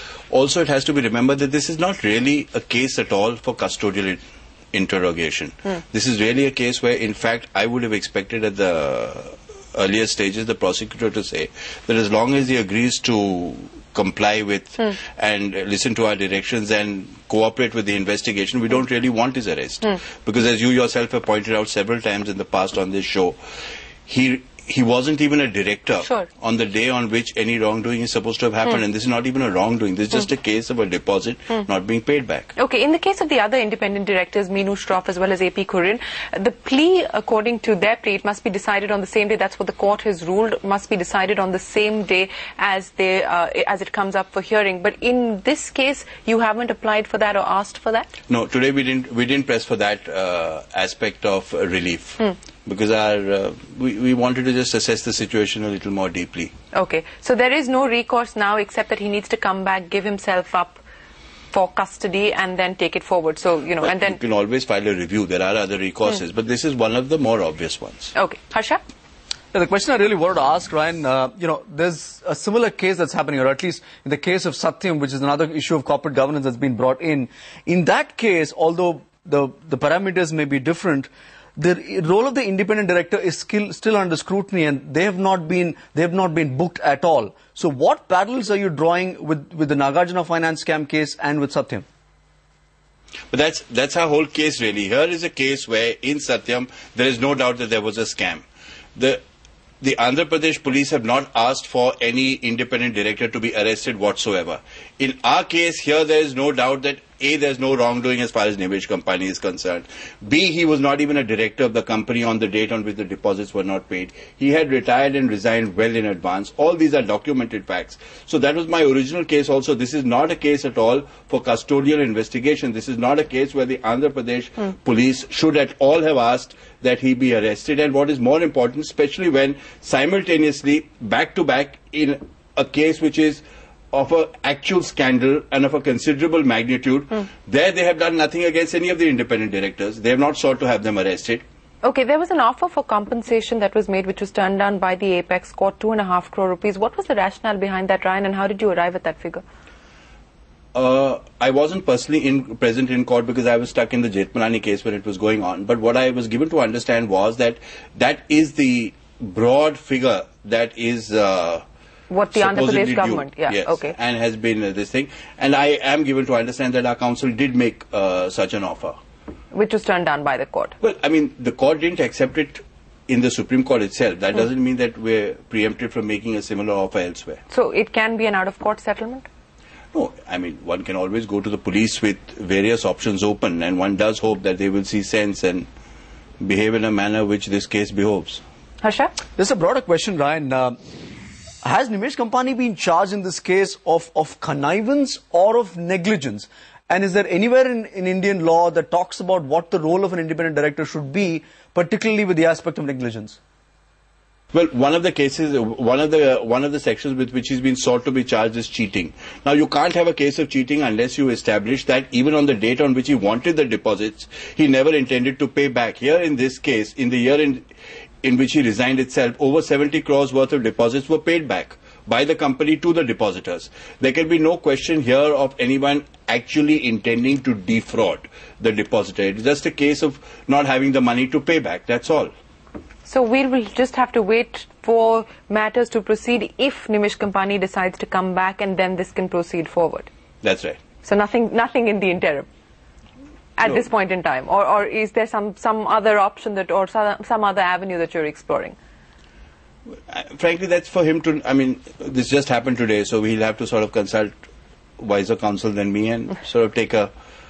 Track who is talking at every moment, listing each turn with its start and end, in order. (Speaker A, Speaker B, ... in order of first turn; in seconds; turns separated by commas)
Speaker A: 0.3-4.2, Speaker A: 4.7-23.4, Speaker A: 24.1-32.5, Speaker B: 32.5-48.1, Speaker A: 48.3-56.5, Speaker B: 56.7-60.8, Speaker B: 61.5-64.2, Speaker A: 63.8-68.1, Speaker B: 68.2-68.8, Speaker C: 69.5-91.8, Speaker A: 93.3-98.4, Speaker A: 99.0-99.2, Speaker A: 99.8-141.4, Speaker B: 141.8-149.4, Speaker A: 150.7-161.6, Speaker B: 162.1-163.9, Speaker A: 162.3-169.0, Speaker B: 169.5-170.7, Speaker A: 170.8-177.4, Speaker B: 177.5-179.3, Speaker A: 179.9-185.7, Speaker A: 186.4-188.4, Speaker B: 188.8-189.1, Speaker C: 189.4-190.8, Speaker C: 191.6-203.4, Speaker A: 204.5-217.6, Speaker A: 218.2-232.3, Speaker B: 233.0-240.1, Speaker A: 240.4-240.8, Speaker B: 241.0-242.5, Speaker B: 243.6-248.8, Speaker A: 250.1-254.3, Speaker A: 255.0-257.1